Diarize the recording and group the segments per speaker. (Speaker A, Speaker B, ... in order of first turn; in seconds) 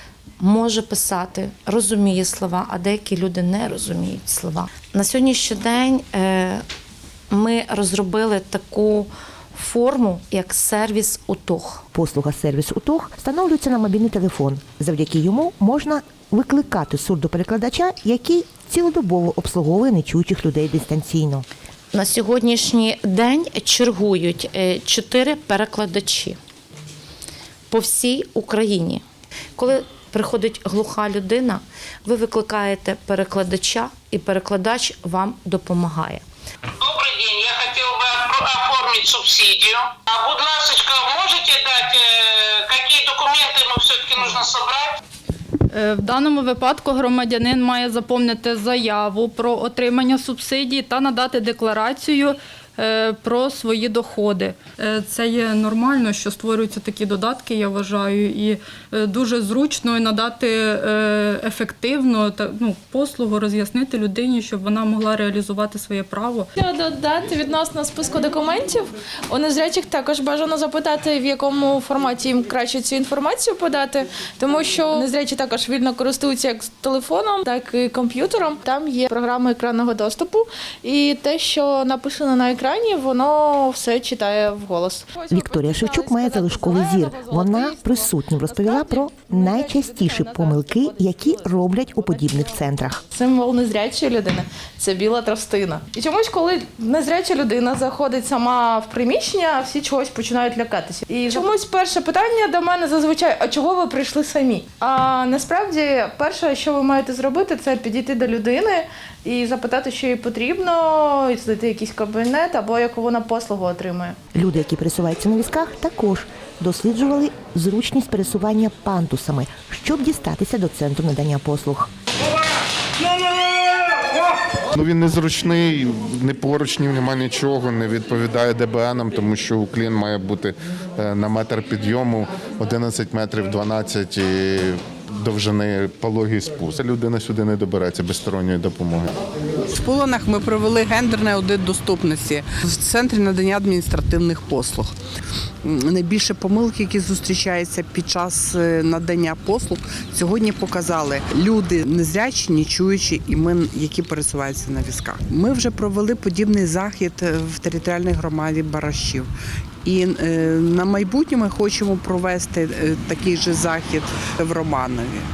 Speaker A: 0.4-6.6, 7.3-11.8, 21.9-26.4, 27.7-29.0, 29.6-36.2
Speaker B: 11.9-21.4, 85.3-93.0, 114.3-121.9
Speaker C: 36.8-44.9
Speaker D: 45.7-66.5
Speaker E: 66.6-92.6, 93.1-114.2
Speaker F: 124.7-139.1
Speaker G: 139.7-144.9, 145.7-159.3, 159.8-165.2